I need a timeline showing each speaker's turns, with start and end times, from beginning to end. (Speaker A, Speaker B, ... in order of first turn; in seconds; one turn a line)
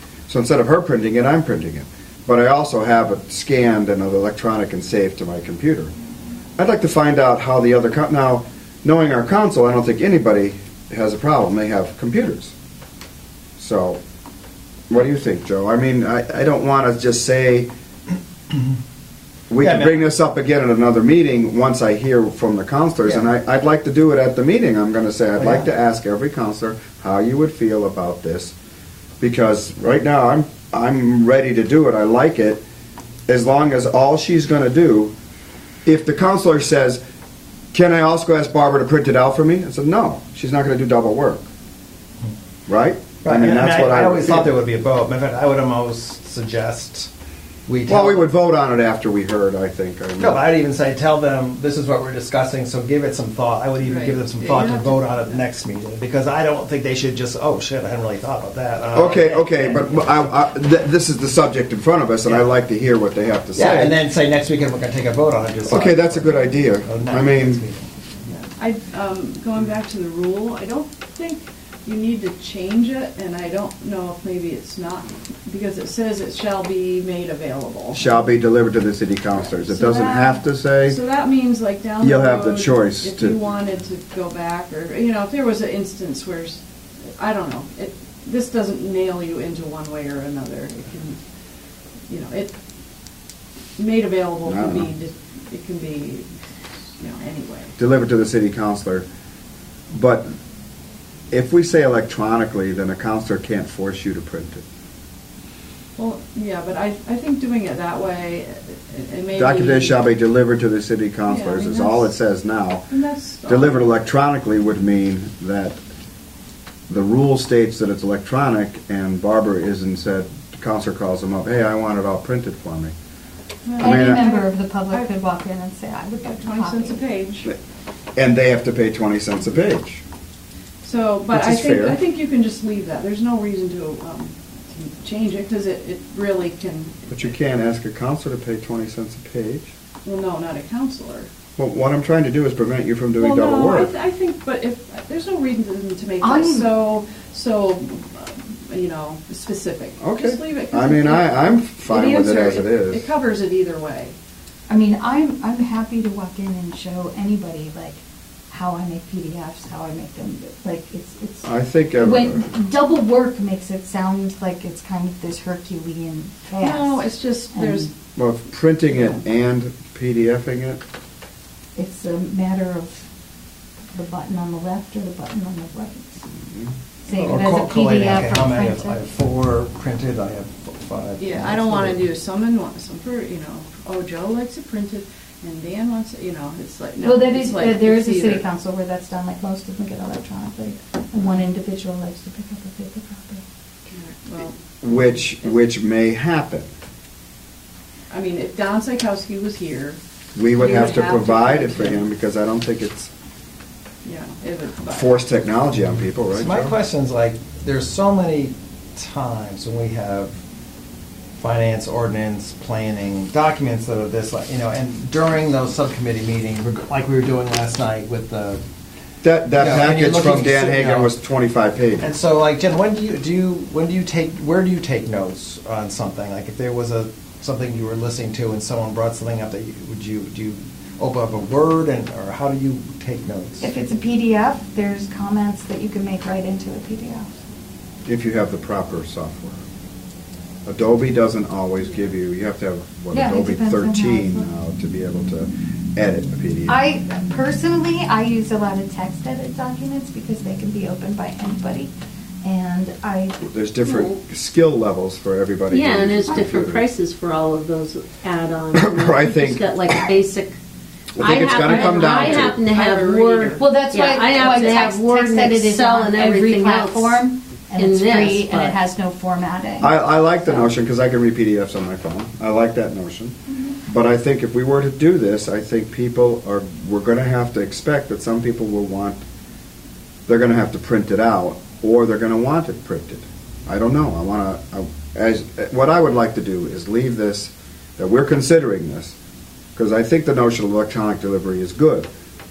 Speaker A: 0.3-5.9
Speaker A: 6.6-12.5
Speaker A: 13.6-14.0
Speaker A: 14.9-17.7
Speaker A: 19.5-28.5
Speaker B: 19.6-20.0
Speaker B: 23.0-23.3
Speaker B: 25.4-25.7
Speaker A: 29.2-32.6
Speaker A: 33.3-35.1
Speaker A: 35.9-37.0
Speaker A: 37.7-41.4
Speaker A: 42.7-44.5
Speaker B: 43.2-47.1
Speaker B: 47.7-48.3
Speaker A: 47.9-50.4
Speaker B: 50.2-60.3
Speaker C: 53.8-55.4
Speaker A: 58.9-64.0
Speaker B: 63.5-67.9
Speaker A: 65.7-67.6
Speaker C: 68.3-78.1
Speaker A: 77.9-81.0
Speaker C: 79.3-86.6
Speaker A: 82.0-83.3
Speaker C: 87.2-91.2
Speaker C: 92.1-92.5
Speaker C: 93.8-96.3
Speaker A: 94.4-94.9
Speaker C: 97.0-97.7
Speaker A: 97.8-99.0
Speaker A: 99.9-100.3
Speaker A: 101.3-104.6
Speaker C: 106.0-110.0
Speaker A: 109.4-112.8
Speaker C: 111.3-112.1
Speaker C: 112.9-113.8
Speaker A: 113.5-115.8
Speaker A: 116.9-122.9
Speaker C: 123.7-125.1
Speaker D: 123.8-127.0
Speaker A: 123.8-124.2
Speaker C: 126.2-127.5
Speaker A: 128.2-130.0
Speaker C: 130.8-137.3
Speaker A: 131.3-132.0
Speaker A: 137.1-139.7
Speaker C: 140.0-141.3
Speaker A: 141.6-143.9
Speaker C: 143.2-154.1
Speaker D: 146.2-146.7
Speaker A: 150.0-153.1
Speaker D: 154.7-167.9
Speaker A: 161.4-162.5
Speaker C: 166.6-167.9
Speaker A: 168.2-170.8
Speaker C: 168.9-169.2
Speaker D: 171.8-173.0
Speaker D: 173.9-176.2
Speaker D: 177.0-179.0
Speaker B: 177.1-182.0
Speaker C: 181.2-188.4
Speaker D: 187.0-193.4
Speaker C: 191.1-191.4
Speaker C: 193.9-195.6
Speaker A: 194.8-196.7
Speaker C: 198.1-200.0
Speaker A: 200.3-203.1
Speaker C: 200.5-202.1
Speaker C: 204.0-205.2
Speaker A: 204.9-206.7
Speaker B: 206.3-210.3
Speaker B: 211.4-218.6
Speaker A: 219.2-222.1
Speaker B: 219.6-221.1
Speaker B: 222.0-233.7
Speaker D: 233.6-237.3
Speaker A: 238.1-239.6
Speaker A: 240.7-246.8
Speaker D: 243.1-244.5
Speaker D: 246.7-251.9
Speaker D: 252.4-253.5
Speaker A: 253.4-256.9
Speaker E: 253.9-254.1
Speaker E: 255.7-260.6
Speaker A: 258.7-259.9
Speaker A: 261.1-262.6
Speaker E: 261.2-268.8
Speaker C: 261.3-263.8
Speaker D: 263.5-269.9
Speaker A: 269.8-273.3
Speaker A: 273.9-279.2
Speaker A: 280.3-289.1
Speaker A: 289.8-292.1